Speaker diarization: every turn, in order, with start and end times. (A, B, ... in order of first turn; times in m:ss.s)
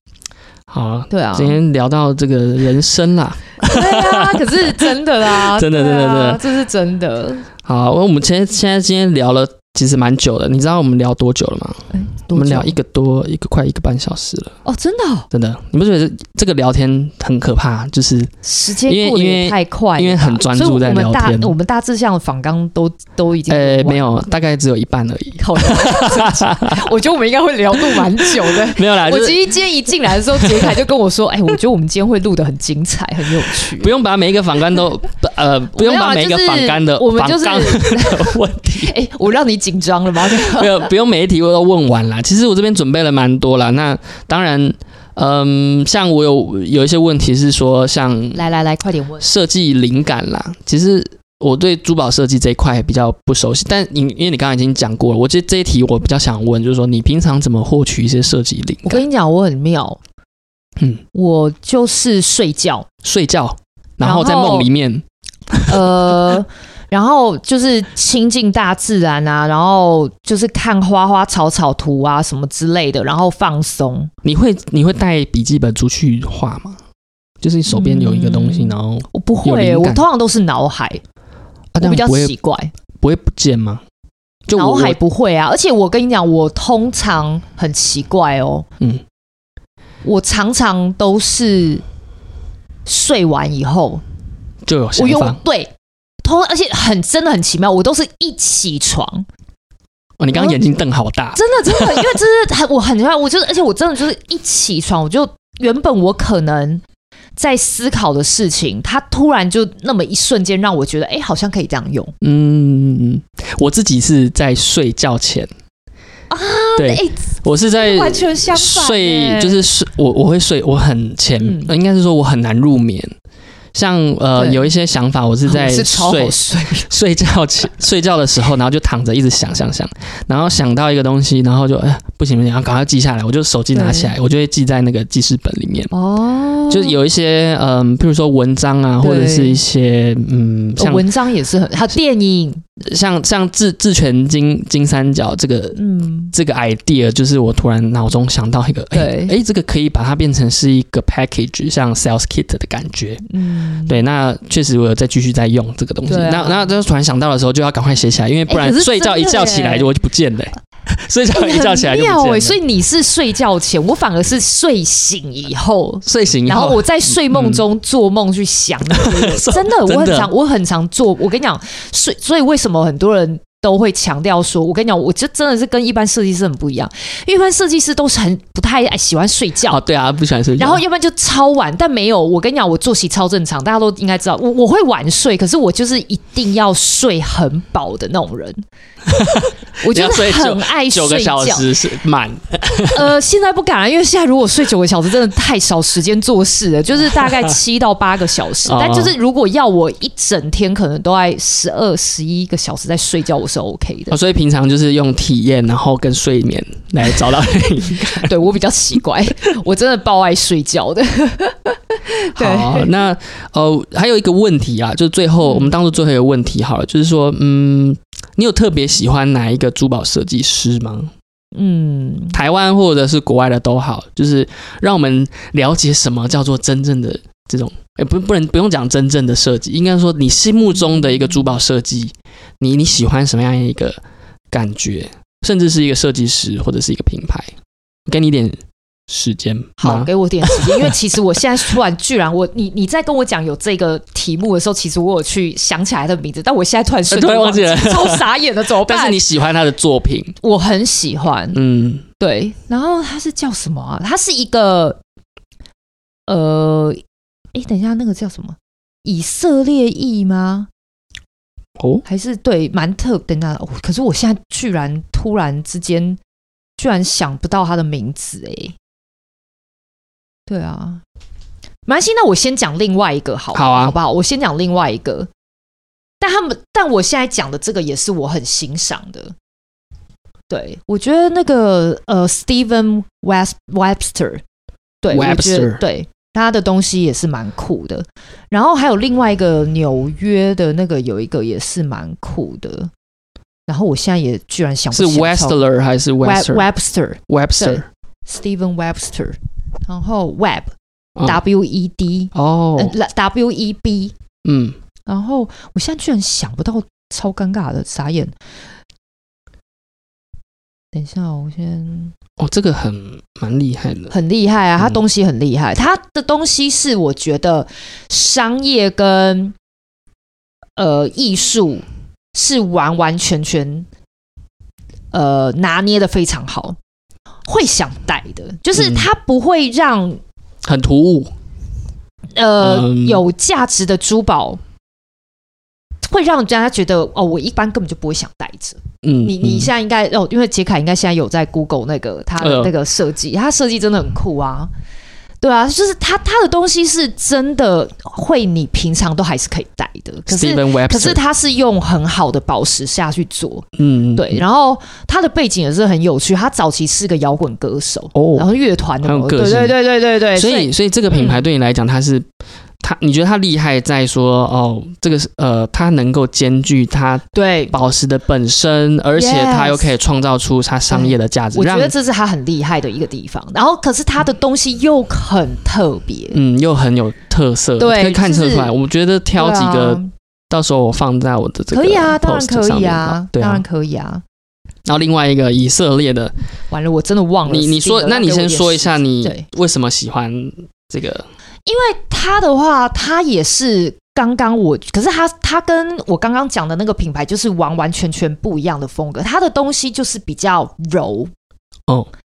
0:00.7-0:06.4 A
0:01.1-0:01.6 B
0:03.6-0:07.5 B
0:07.6-0:14.6 A
0:11.9-0:12.8 B
0:14.6-0:15.3 B
0:15.3-0:18.3 A
0:18.4-0:24.3 B
0:18.9-0:21.6 A
0:23.5-0:26.8 A
0:25.4-0:33.9 B
0:27.9-0:29.4 A
0:30.1-0:30.8 A
0:33.6-0:38.9 A
0:35.7-0:40.9 B
0:40.3-0:48.4 A
0:48.3-0:49.3 B
0:49.2-0:59.0 A
0:58.8-1:00.0 B
1:01.1-1:02.9 B
1:03.0-1:05.8 A
1:04.0-1:04.7 B
1:05.7-1:14.1 B
1:14.2-1:16.8 A
1:17.4-1:20.0 A
1:17.7-1:21.0 B
1:21.7-1:22.3 A
1:21.8-1:22.7 B
1:23.0-1:23.8 A
1:24.5-1:25.0 A
1:24.5-1:28.7 B
1:30.0-1:31.8 B
1:32.9-1:34.0 B
1:34.7-1:35.4 A
1:35.0-1:39.3 B
1:40.2-1:42.2 A
1:40.3-1:40.6 B
1:41.4-1:46.8 B
1:47.4-1:52.1 B
1:52.2-1:55.5 A
1:56.3-1:59.7 B
1:56.8-2:03.1 A
2:01.4-2:01.7 B
2:03.7-2:15.9 A
2:04.4-2:04.7 B
2:05.4-2:06.9 B
2:13.7-2:14.1 B
2:15.9-2:17.0 B
2:16.7-2:21.1 A
2:19.0-2:19.6 B
2:20.8-2:22.6 B
2:22.8-2:25.8 A
2:25.8-2:26.3 B
2:26.3-2:33.2 A
2:28.9-2:29.4 B
2:33.3-2:34.0 B
2:33.9-2:42.6 A
2:36.1-2:36.7 B
2:38.5-2:39.9 B
2:41.3-2:59.8 B
2:46.0-2:47.6 A
2:48.9-2:50.3 A
2:59.7-3:00.8 A
3:00.6-3:08.6 B
3:09.1-3:13.1 A
3:09.8-3:11.7 B
3:12.9-3:24.2 B
3:18.6-3:19.2 A
3:24.1-3:28.3 A
3:28.2-3:32.9 B
3:32.3-3:41.1 A
3:35.4-3:35.7 B
3:41.5-3:42.4 B
3:42.3-3:54.0 A
3:54.5-3:57.5 A
3:58.1-4:01.0 A
3:59.8-4:09.2 B
4:07.1-4:10.4 A
4:10.4-4:11.6 B
4:11.5-4:12.0 A
4:12.2-4:15.0 B
4:16.3-4:17.0 B
4:17.5-4:20.7 B
4:21.8-4:22.0 A
4:22.0-4:26.2 B
4:26.8-4:28.8 B
4:30.5-4:31.0 B
4:31.9-4:35.3 B
4:33.5-4:34.0 A
4:36.2-4:39.4 B
4:40.5-4:44.4 B
4:45.0-4:52.9 B
4:45.1-4:45.8 A
4:53.7-4:55.6 B
4:54.9-4:56.7 A
4:56.2-5:00.7 B
4:57.3-4:57.9 A
5:01.2-5:04.1 B
5:02.3-5:02.9 A
5:04.4-5:04.8 A
5:05.1-5:08.3 B
5:10.9-5:12.1 B
5:12.4-5:14.1 A
5:14.1-5:19.6 B
5:20.8-5:23.9 B
5:25.1-5:26.8 B
5:27.5-5:30.2 B
5:28.8-5:29.1 A
5:30.6-5:31.3 A
5:32.4-5:34.6 B
5:32.6-5:33.2 A
5:36.1-5:44.7 B
5:39.0-5:39.7 A
5:42.4-5:42.7 A
5:45.4-6:01.4 B
5:50.3-5:51.2 A
5:53.8-5:54.4 A
5:58.2-5:58.5 A
5:59.0-5:59.8 A
6:00.3-6:02.3 A
6:02.8-6:11.9 A
6:07.3-6:07.8 B
6:09.2-6:09.9 B
6:10.9-6:16.4 B
6:16.3-6:23.6 A
6:17.8-6:18.7 B
6:19.4-6:20.1 B
6:21.7-6:24.2 B
6:24.8-6:26.3 A
6:26.7-6:29.5 B
6:27.5-6:31.3 A
6:31.7-6:41.3 B